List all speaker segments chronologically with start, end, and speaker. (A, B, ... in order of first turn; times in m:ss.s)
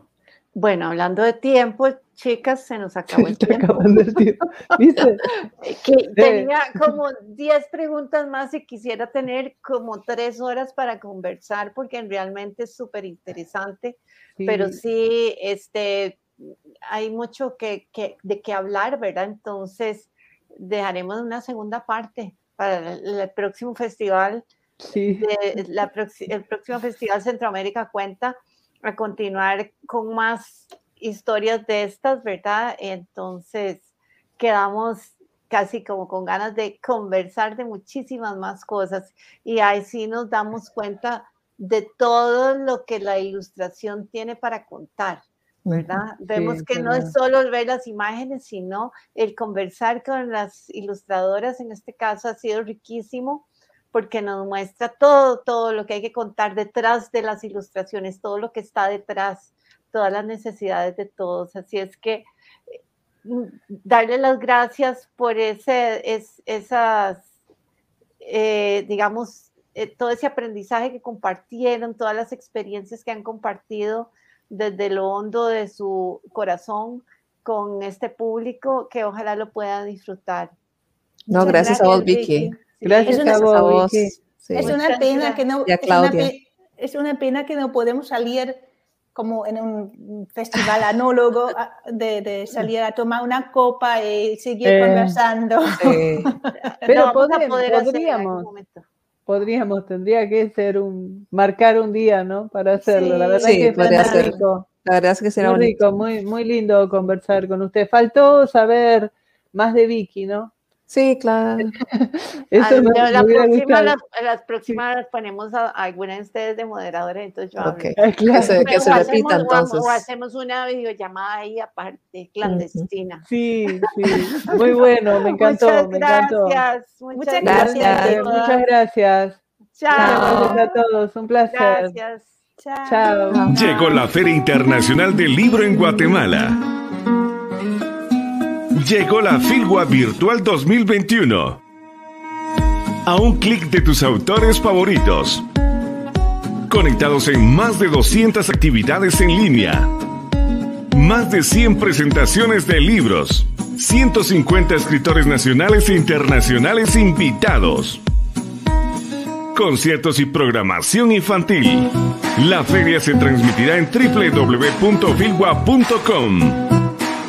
0:00.6-0:04.2 A
0:03.1-0:05.3 B
0:05.2-0:24.4 A
0:06.2-0:06.5 B
0:14.4-0:14.8 B
0:24.8-0:25.3 B
0:25.2-0:45.2 A
0:45.8-1:02.3 A
0:46.3-0:47.1 B
1:03.2-1:07.2 A
1:08.2-1:20.6 A
1:21.3-1:22.6 C
1:21.3-1:23.7 D
1:22.8-1:23.5 A
1:22.8-1:24.1 B
1:23.1-1:24.8 C
1:24.6-1:25.4 A
1:24.6-1:28.6 D
1:25.6-1:26.4 C
1:29.2-1:36.7 D
1:34.6-1:35.2 B
1:35.7-1:36.4 C
1:36.8-1:38.9 A
1:36.9-1:38.5 B
1:39.3-1:44.7 B
1:42.9-1:44.4 A
1:43.4-1:45.8 C
1:45.4-1:50.5 B
1:50.9-1:51.7 C
1:51.6-1:54.0 B
1:52.6-2:03.2 A
1:57.6-2:00.0 C
1:58.0-1:59.2 B
2:02.4-2:02.8 C
2:03.3-2:06.6 B
2:05.2-2:08.6 A
2:07.2-2:08.2 D
2:07.4-2:08.2 C
2:07.4-2:09.4 B
2:09.8-2:10.5 A
2:09.9-2:12.0 B
2:10.0-2:10.6 C
2:10.0-2:10.4 D
2:11.5-2:12.3 A
2:12.6-2:13.1 D
2:12.9-2:13.4 B
2:13.3-2:13.6 C
2:13.5-2:16.6 E
2:18.8-2:21.6 E
2:23.1-2:25.4 E
2:26.7-2:29.9 E
2:30.9-2:38.0 E
2:39.5-2:46.7 E